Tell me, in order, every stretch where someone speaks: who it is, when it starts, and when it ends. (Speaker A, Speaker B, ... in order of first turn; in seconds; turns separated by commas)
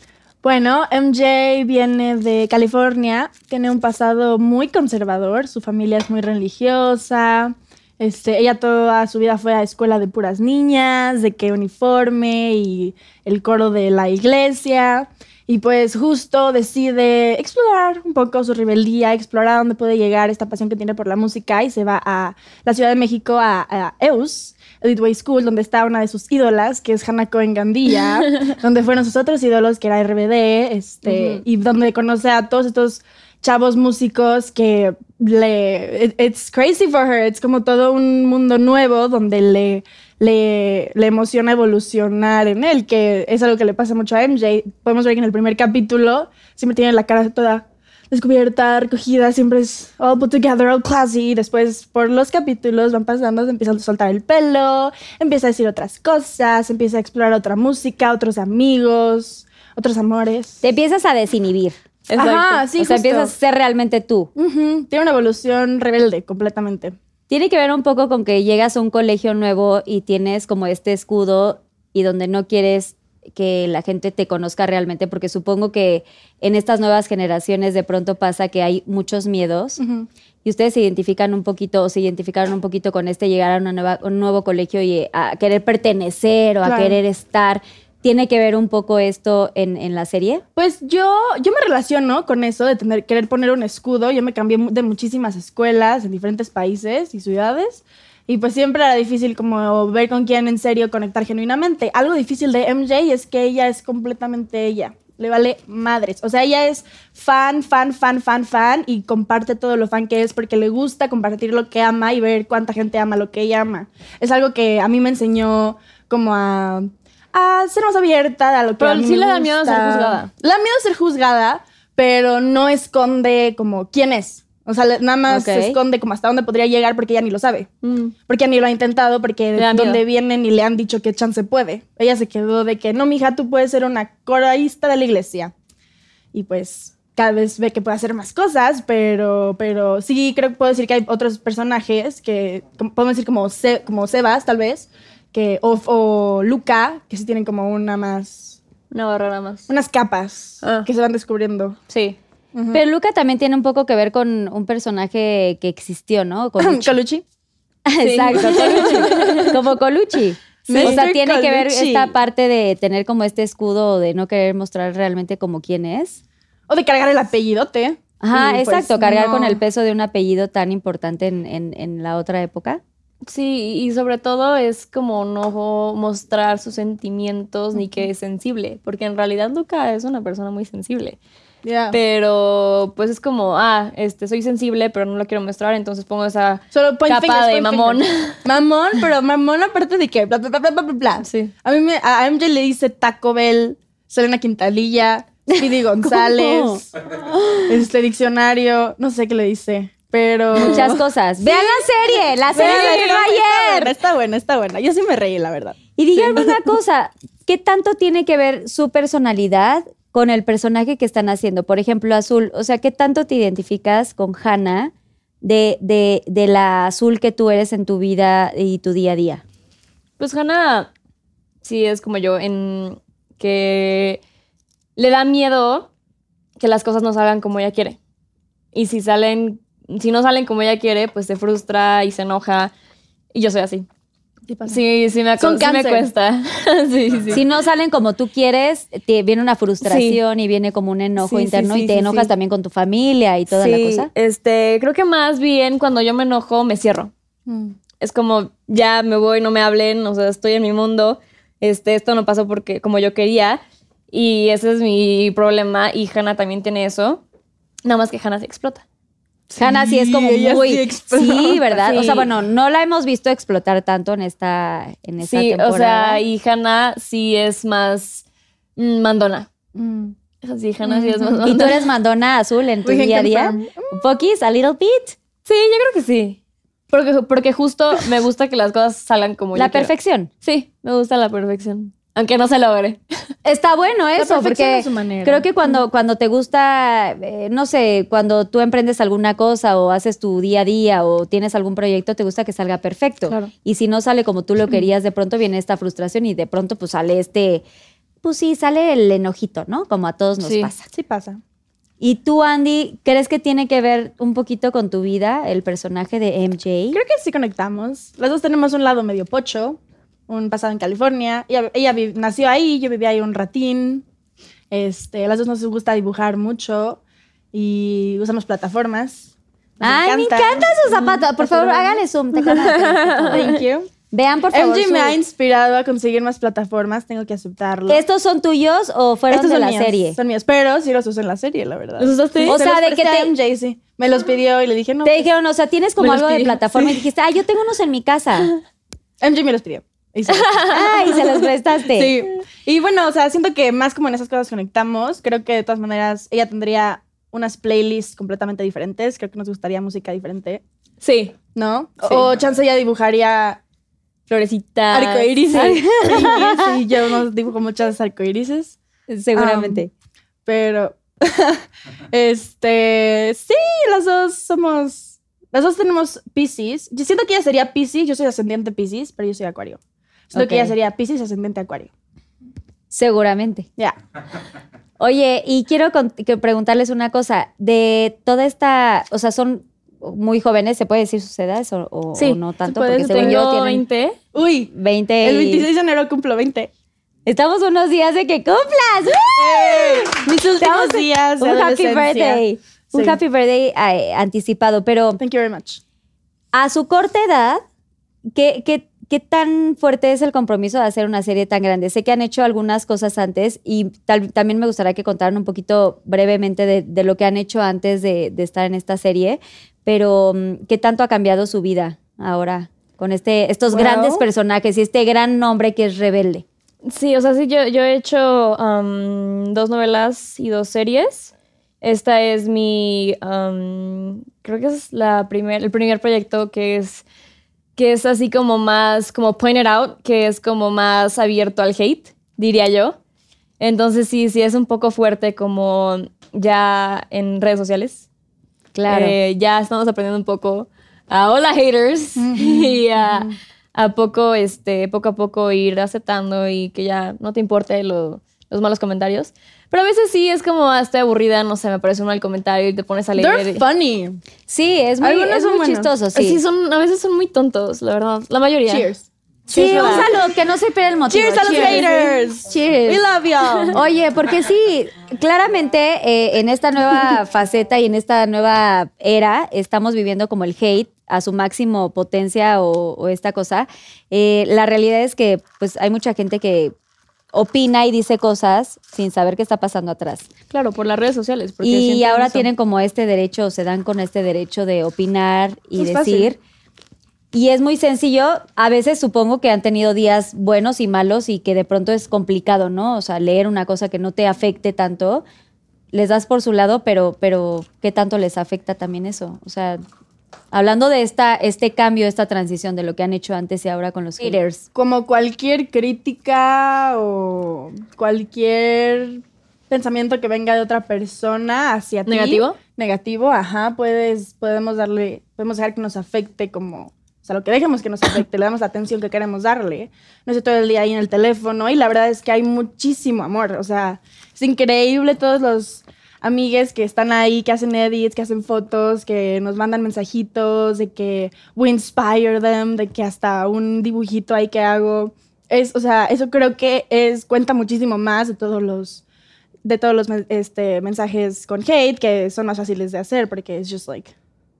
Speaker A: 0.4-60.6, Speaker B: 31.1-31.4, Speaker B: 60.6-61.8, Speaker C: 62.1-62.6, Speaker A: 62.2-63.3, Speaker B: 62.7-64.3, Speaker A: 64.3-66.9, Speaker B: 67.3-79.8, Speaker A: 79.8-80.1, Speaker B: 80.4-90.4, Speaker A: 86.6-87.0, Speaker A: 90.5-127.7, Speaker C: 118.8-120.3, Speaker B: 125.3-125.8, Speaker C: 127.8-128.1, Speaker A: 128.3-135.5, Speaker C: 129.6-130.0, Speaker A: 136.3-148.6, Speaker C: 148.9-149.7, Speaker A: 149.7-151.8, Speaker C: 150.6-150.9, Speaker C: 151.9-152.2, Speaker A: 152.5-152.8, Speaker B: 152.7-156.9, Speaker A: 156.6-157.2, Speaker B: 157.8-166.2, Speaker C: 158.0-159.5, Speaker A: 158.3-159.6, Speaker A: 160.7-162.1, Speaker C: 160.7-161.0, Speaker A: 166.7-169.6, Speaker B: 168.2-172.8, Speaker C: 173.2-181.2, Speaker A: 181.6-182.0, Speaker C: 181.9-188.4, Speaker A: 186.7-196.9, Speaker C: 191.2-191.5, Speaker B: 195.5-197.8, Speaker A: 197.6-201.9, Speaker B: 200.6-203.9, Speaker C: 200.6-200.9, Speaker A: 202.5-205.8, Speaker C: 202.5-202.9, Speaker B: 206.0-219.4, Speaker C: 220.2-220.9, Speaker C: 221.6-224.2, Speaker C: 224.9-225.9, Speaker C: 226.6-228.0, Speaker C: 228.7-232.7, Speaker C: 233.3-233.9, Speaker A: 234.5-234.8, Speaker C: 234.7-237.4, Speaker A: 235.4-236.1, Speaker B: 237.3-244.1, Speaker C: 239.8-240.2, Speaker C: 241.2-242.3, Speaker C: 243.5-247.1, Speaker A: 247.5-247.7, Speaker C: 248.0-257.2, Speaker C: 257.8-258.8, Speaker A: 259.5-262.0, Speaker B: 259.6-266.2, Speaker C: 261.8-262.3, Speaker C: 265.2-268.2, Speaker C: 268.8-269.5, Speaker A: 269.7-270.1, Speaker C: 270.4-271.8, Speaker A: 270.9-271.4, Speaker B: 271.4-275.2, Speaker A: 272.8-274.0, Speaker C: 275.4-276.4, Speaker C: 276.9-283.0, Speaker B: 279.5-280.3, Speaker B: 283.4-297.6, Speaker A: 284.2-285.6, Speaker B: 298.2-300.9, Speaker C: 300.4-300.7, Speaker A: 300.8-301.4, Speaker B: 302.0-307.0, Speaker A: 306.9-314.0, Speaker A: 314.7-317.0, Speaker A: 317.5-322.0, Speaker B: 319.8-323.5, Speaker C: 322.5-323.6, Speaker A: 323.3-323.9, Speaker B: 324.1-325.2, Speaker A: 324.5-328.0, Speaker B: 327.9-330.2, Speaker A: 329.3-335.3, Speaker C: 332.0-332.6, Speaker B: 332.4-333.3, Speaker B: 335.0-338.5, Speaker C: 336.0-336.9, Speaker A: 339.2-341.2, Speaker C: 340.3-341.1, Speaker B: 340.7-342.2, Speaker A: 341.9-350.6, Speaker C: 351.0-351.4, Speaker A: 351.5-353.6, Speaker C: 354.3-356.3, Speaker A: 354.9-358.8, Speaker B: 355.5-356.7, Speaker B: 359.1-359.9, Speaker A: 359.3-359.8, Speaker A: 360.4-369.8, Speaker A: 370.3-371.9, Speaker B: 370.3-370.7, Speaker B: 372.9-373.6, Speaker B: 375.0-383.8, Speaker A: 382.7-383.5, Speaker C: 383.0-384.2, Speaker A: 384.3-386.7, Speaker B: 384.7-385.7, Speaker B: 387.2-395.2, Speaker A: 389.4-393.2, Speaker A: 395.2-395.8, Speaker B: 396.5-397.6, Speaker B: 398.3-416.4, Speaker A: 413.7-414.2, Speaker C: 416.8-427.0, Speaker C: 427.8-433.0, Speaker C: 433.6-438.1, Speaker B: 438.7-439.1, Speaker C: 438.9-453.6, Speaker A: 442.2-443.3, Speaker A: 453.2-454.2, Speaker B: 454.5-456.4, Speaker A: 455.0-455.9, Speaker C: 456.1-458.9, Speaker A: 458.7-460.1, Speaker C: 459.5-460.1, Speaker B: 459.5-462.1, Speaker A: 461.1-463.8, Speaker C: 461.4-463.7, Speaker B: 463.7-476.7, Speaker B: 477.3-480.3, Speaker C: 480.5-482.5, Speaker B: 481.6-486.4, Speaker A: 485.8-486.3, Speaker B: 487.3-495.2, Speaker B: 495.9-499.8, Speaker B: 500.5-504.6, Speaker A: 504.7-539.0, Speaker C: 512.0-512.6, Speaker A: 539.6-544.1